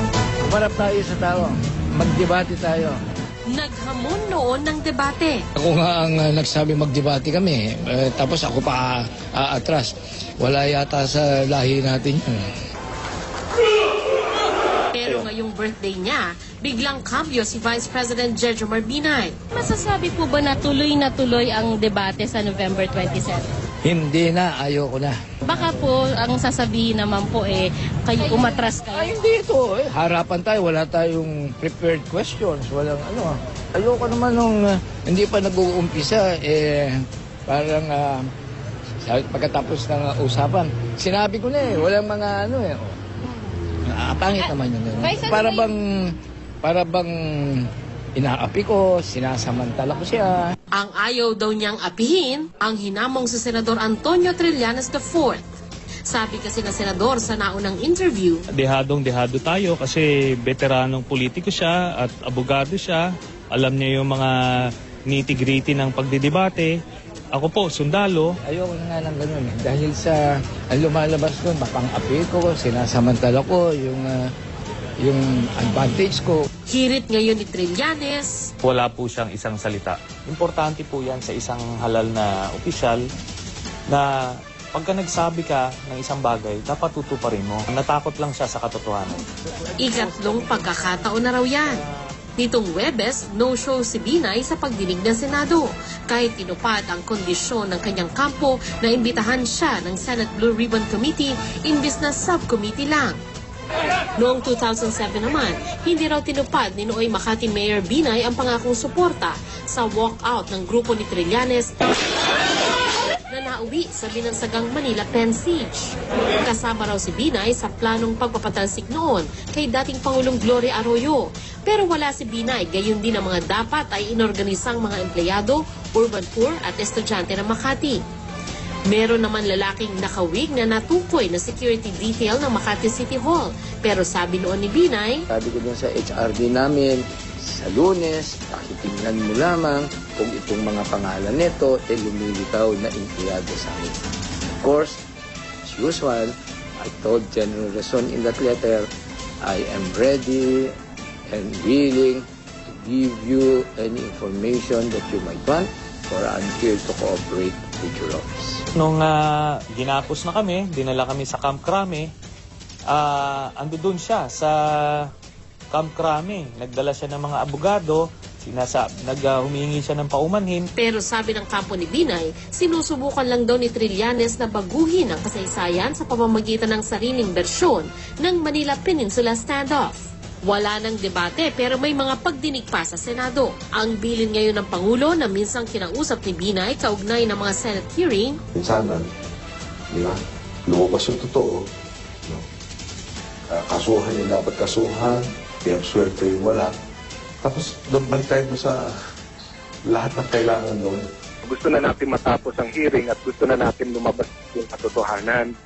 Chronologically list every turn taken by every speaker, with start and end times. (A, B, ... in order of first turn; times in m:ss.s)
0:00.4-0:03.0 A
0:03.5-0:05.4 B
0:05.6-0:12.5 A
0:14.9-0:19.4 B
0:19.5-0:23.4 C
0:23.8-0:25.2 A
0:25.4-0:29.1 C
0:28.9-0:38.3 A
0:39.0-0:43.0 A
0:43.9-0:50.5 A
0:50.8-0:55.4 B
0:56.1-0:58.4 B
0:58.6-1:04.3 D
1:05.1-1:06.7 D
1:07.4-1:08.3 D
1:08.5-1:14.3 A
1:15.0-1:16.4 A
1:16.7-1:18.5 B
1:18.6-1:23.0 D
1:24.7-1:29.2 D
1:29.8-1:31.8 B
1:32.4-1:43.2 B
1:44.2-1:51.9 B
1:53.3-2:08.0 B
2:08.9-2:15.2 B
2:15.3-2:24.0 A
2:24.6-2:25.0 A
2:25.6-2:28.9 A
2:29.4-2:30.8 A
2:31.3-2:38.6 A
2:38.8-2:39.2 D
2:39.7-2:42.1 D
2:42.9-2:44.5 D
2:45.7-2:50.7 D
2:50.8-3:08.4 B
3:08.6-3:09.1 E
3:09.9-3:11.7 E
3:13.5-3:16.7 E
3:17.4-3:18.9 E
3:19.9-3:21.0 E
3:21.4-3:25.5 F